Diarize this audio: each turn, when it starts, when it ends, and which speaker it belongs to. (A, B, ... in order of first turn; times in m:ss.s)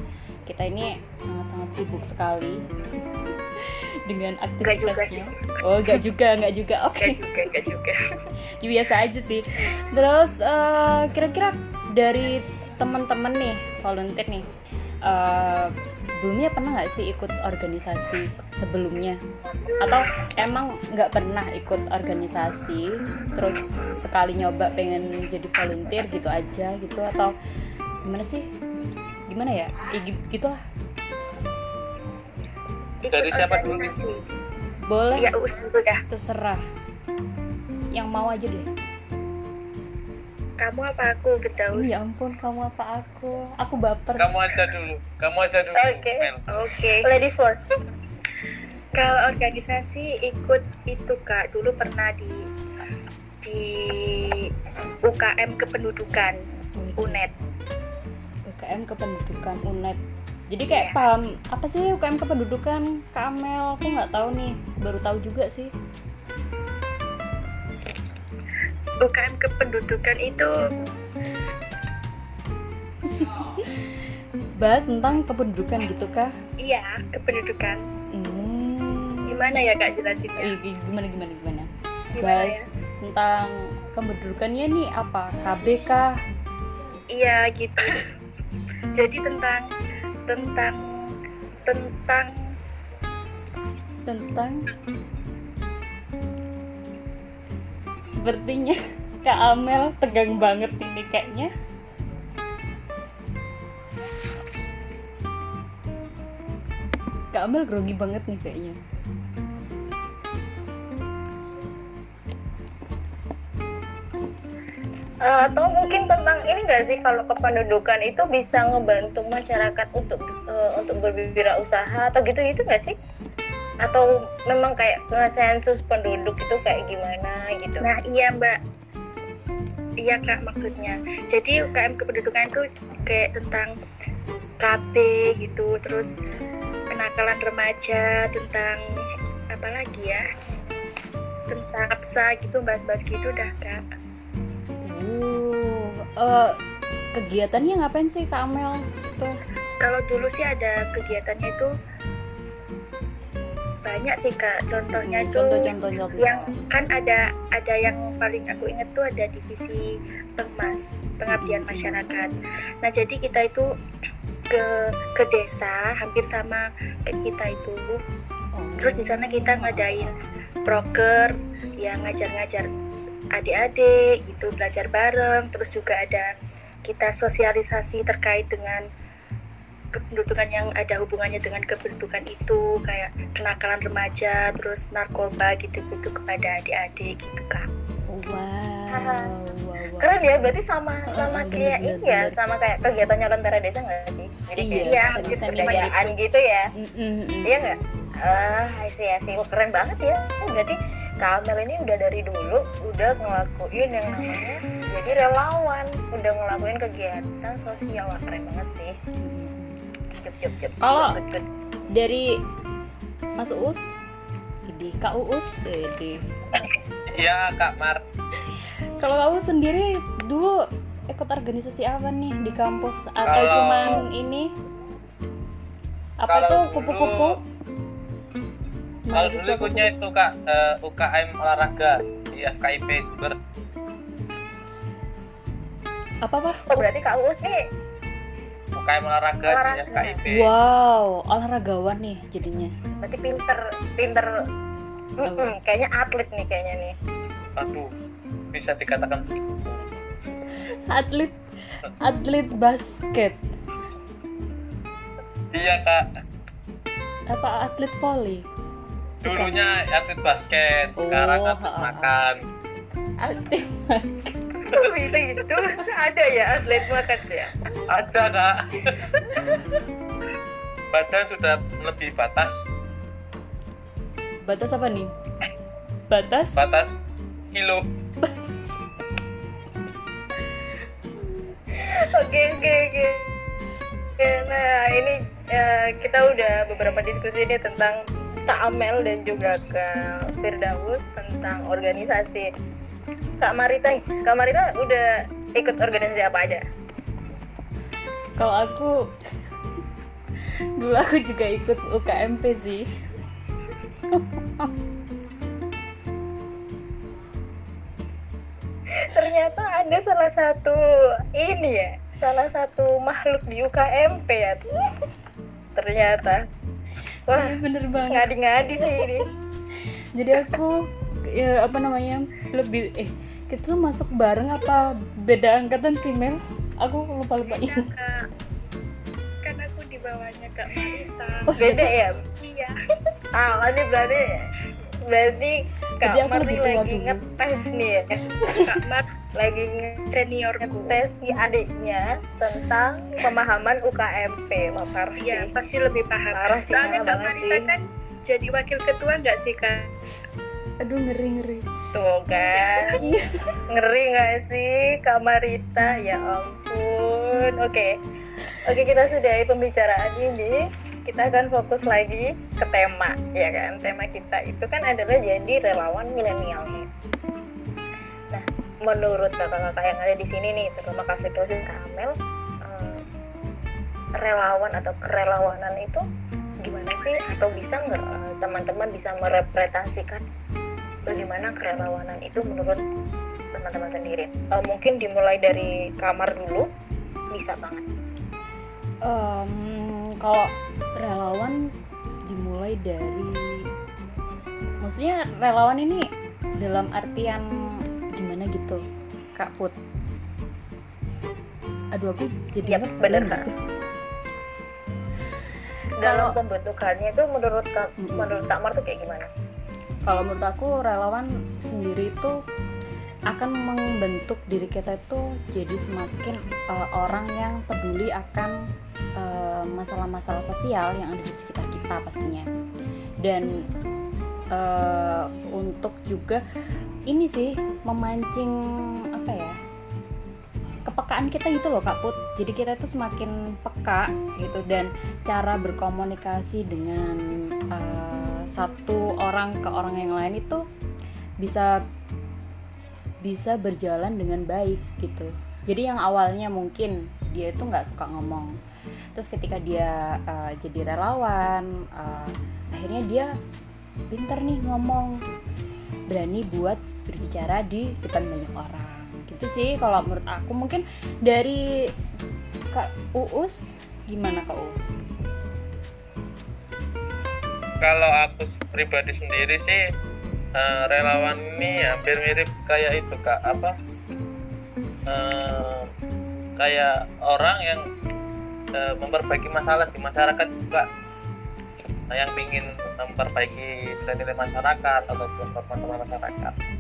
0:00.5-0:02.6 A
0:03.6-0:07.2 A
0:04.6-0:06.0 B
0:07.0-0:08.3 B
0:08.6-0:14.4 A
0:15.0-0:19.2 A
0:19.6-0:20.1 B
0:19.8-0:27.3 A
0:28.0-0:28.5 A
0:29.3-0:30.6 A
0:33.0-0:34.2 B
0:33.1-0:34.0 C
0:34.9-0:35.4 A
0:35.1-0:36.0 B
0:36.1-0:36.6 A
0:37.9-0:38.7 A
0:40.6-0:41.9 B
0:41.7-0:44.4 A
0:44.2-0:46.5 C
0:45.8-0:46.3 D
0:46.5-0:47.2 B
0:47.0-0:47.8 D
0:49.0-0:52.4 B
0:53.4-0:54.5 B
0:55.0-0:56.4 B
0:56.8-0:57.2 A
0:57.0-0:57.3 B
0:58.5-1:00.0 A
1:00.5-1:05.7 A
1:00.7-1:01.0 B
1:09.0-1:10.5 B
1:13.1-1:13.9 A
1:14.6-1:16.3 A
1:16.6-1:17.8 B
1:18.1-1:19.5 A
1:19.3-1:20.5 B
1:20.4-1:21.7 A
1:22.1-1:22.6 B
1:22.2-1:26.2 A
1:27.1-1:28.1 B
1:28.9-1:29.7 B
1:30.2-1:30.8 B
1:31.6-1:32.4 B
1:34.0-1:34.6 A
1:38.1-1:41.5 A
1:47.3-1:48.8 A
1:55.2-2:02.9 D
2:03.8-2:07.9 D
2:07.8-2:08.6 B
2:10.0-2:13.8 B
2:14.6-2:16.1 B
2:16.9-2:18.8 B
2:19.5-2:20.3 B
2:21.5-2:23.8 B
2:24.8-2:26.6 A
2:27.1-2:29.4 A
2:29.8-2:31.7 B
2:33.8-2:43.7 B
2:34.9-2:36.5 A
2:41.3-2:42.0 A
2:44.5-2:48.0 B
2:48.5-2:50.1 A
2:48.8-2:52.7 B
2:53.3-2:56.3 B
2:56.8-2:58.9 B
2:59.9-3:07.7 B
3:08.1-3:10.2 A
3:08.9-3:09.3 D
3:10.0-3:16.7 D
3:11.1-3:12.4 A
3:14.6-3:16.0 A
3:14.8-3:16.1 B
3:16.8-3:18.0 A
3:17.4-3:28.9 D
3:29.2-3:29.8 A
3:30.1-3:31.4 D
3:30.8-3:31.2 A
3:31.9-3:32.4 A
3:33.4-3:33.9 A
3:34.7-3:36.2 A
3:37.1-3:38.0 C
3:39.0-3:44.5 A
3:43.3-3:44.0 C
3:46.2-3:47.4 A
3:46.3-3:47.4 C
3:49.1-3:49.9 A
3:49.1-3:53.4 C
3:56.2-3:56.8 A
3:56.7-3:57.6 D
3:58.8-4:00.5 C
3:59.4-4:00.2 D
4:00.3-4:02.7 A
4:03.0-4:04.3 D
4:05.2-4:06.9 D
4:05.2-4:05.5 A
4:07.6-4:07.9 C
4:08.5-4:09.9 C
4:10.6-4:11.4 A
4:12.0-4:13.4 A
4:15.5-4:16.0 C
4:17.3-4:18.5 A
4:19.2-4:22.4 C
4:19.3-4:19.6 A
4:21.0-4:22.1 A
4:23.2-4:24.4 A
4:24.7-4:27.5 D
4:27.9-4:29.2 C
4:30.9-4:32.6 C
4:34.4-4:35.1 A
4:36.1-4:36.6 A
4:36.6-4:37.0 C
4:37.5-4:37.9 C
4:38.2-4:38.8 A
4:41.8-4:43.3 D
4:44.2-4:52.5 D
4:53.4-4:56.6 D
4:58.4-4:59.0 A
5:00.8-5:02.9 A
5:04.1-5:04.7 A
5:08.9-5:14.7 D
5:15.8-5:16.5 D
5:17.3-5:19.3 D
5:17.3-5:18.3 A
5:20.1-5:27.9 A
5:27.4-5:28.2 B
5:29.4-5:32.8 B
5:31.5-5:31.9 A
5:31.6-5:32.2 D
5:33.3-5:34.4 D
5:35.1-5:38.2 D
5:36.0-5:37.2 A
5:38.4-5:38.8 A
5:38.5-5:39.1 B
5:39.4-5:40.1 D
5:40.1-5:41.0 B
5:40.7-5:45.5 D
5:45.2-5:49.9 B
5:46.3-5:47.7 D
5:50.8-5:51.7 A
5:51.9-5:53.0 D
5:52.7-5:53.0 B
5:53.0-5:53.4 A
5:53.7-5:58.0 D
5:58.6-6:06.9 D
6:08.3-6:13.0 D
6:14.2-6:16.0 D
6:16.6-6:20.2 D
6:17.0-6:17.5 B
6:21.0-6:22.8 D
6:23.5-6:26.7 D
6:27.3-6:27.8 D
6:29.0-6:31.6 A
6:32.3-6:33.6 A
6:34.8-6:37.4 A
6:38.1-6:38.8 A
6:39.4-6:39.8 A
6:41.9-6:43.5 A
6:42.6-6:43.5 D
6:46.0-6:46.4 A
6:46.0-6:49.3 D
6:48.0-6:48.5 A
6:50.1-6:52.4 A
6:53.3-6:58.6 A
6:59.2-7:02.5 A
7:03.2-7:03.5 A
7:04.5-7:06.4 A
7:07.1-7:08.5 A
7:09.1-7:09.6 A
7:10.9-7:20.6 A
7:21.4-7:21.8 A
7:23.2-7:28.5 A
7:29.1-7:33.3 A
7:34.1-7:35.2 A
7:36.1-7:41.6 A
7:42.7-7:45.0 A
7:47.8-7:49.8 C
7:50.6-7:53.7 C
7:55.1-7:55.9 C
7:56.6-7:57.8 C
7:58.7-8:00.9 C
8:02.1-8:06.6 C